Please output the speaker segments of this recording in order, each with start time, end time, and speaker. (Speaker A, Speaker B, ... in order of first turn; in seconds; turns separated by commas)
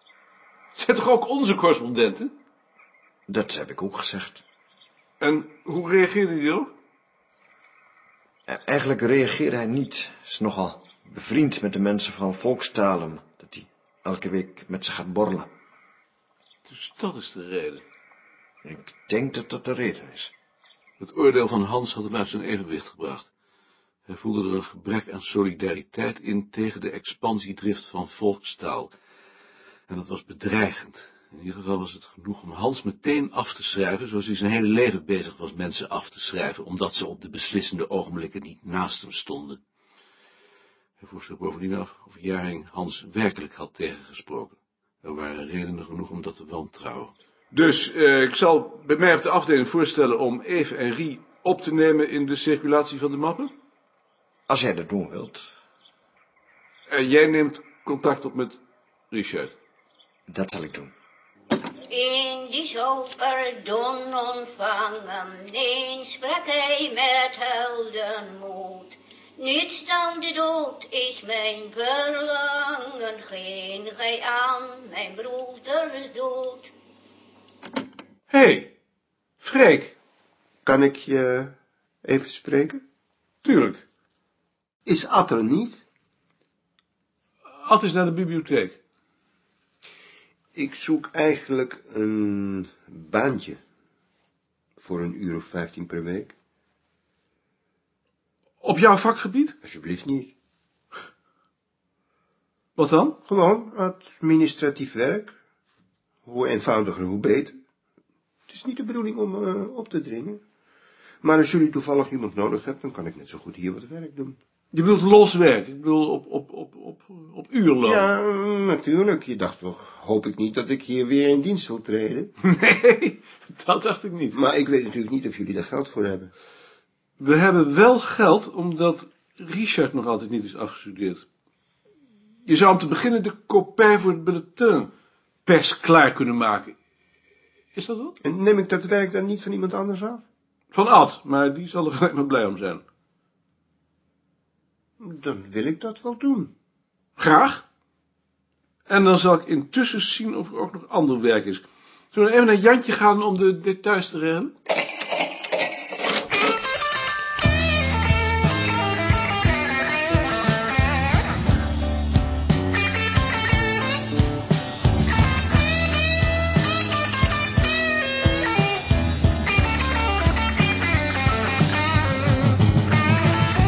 Speaker A: 0.8-2.3, Speaker B: 3.3-4.4, Speaker A: 5.2-6.7, Speaker B: 8.5-15.5, Speaker A: 16.7-17.8, Speaker B: 18.6-20.3, Speaker A: 21.0-23.3, Speaker A: 24.1-28.9, Speaker A: 29.9-39.6, Speaker A: 41.0-53.5, Speaker B: 54.5-55.5, Speaker A: 56.9-58.6, Speaker A: 59.1-59.5, Speaker B: 60.3-60.9, Speaker C: 61.9-76.7, Speaker A: 78.3-78.7, Speaker A: 79.4-79.9, Speaker D: 80.7-81.5, Speaker D: 82.0-82.8, Speaker A: 83.4-83.8, Speaker D: 84.9-85.8, Speaker A: 87.6-88.8, Speaker D: 90.5-93.6, Speaker D: 94.8-96.3, Speaker A: 98.6-99.5, Speaker D: 99.6-100.3, Speaker A: 102.8-103.2, Speaker D: 103.3-105.3, Speaker D: 106.3-107.6, Speaker D: 108.5-110.4, Speaker D: 111.2-114.4, Speaker A: 114.7-118.1, Speaker D: 117.8-122.3, Speaker A: 122.5-124.3, Speaker D: 124.3-126.3, Speaker A: 127.2-131.2, Speaker A: 132.5-134.9, Speaker A: 135.5-136.7, Speaker A: 137.7-138.2, Speaker D: 138.2-140.2, Speaker A: 140.7-142.8, Speaker D: 145.0-146.5, Speaker A: 147.2-147.6, Speaker A: 148.9-154.5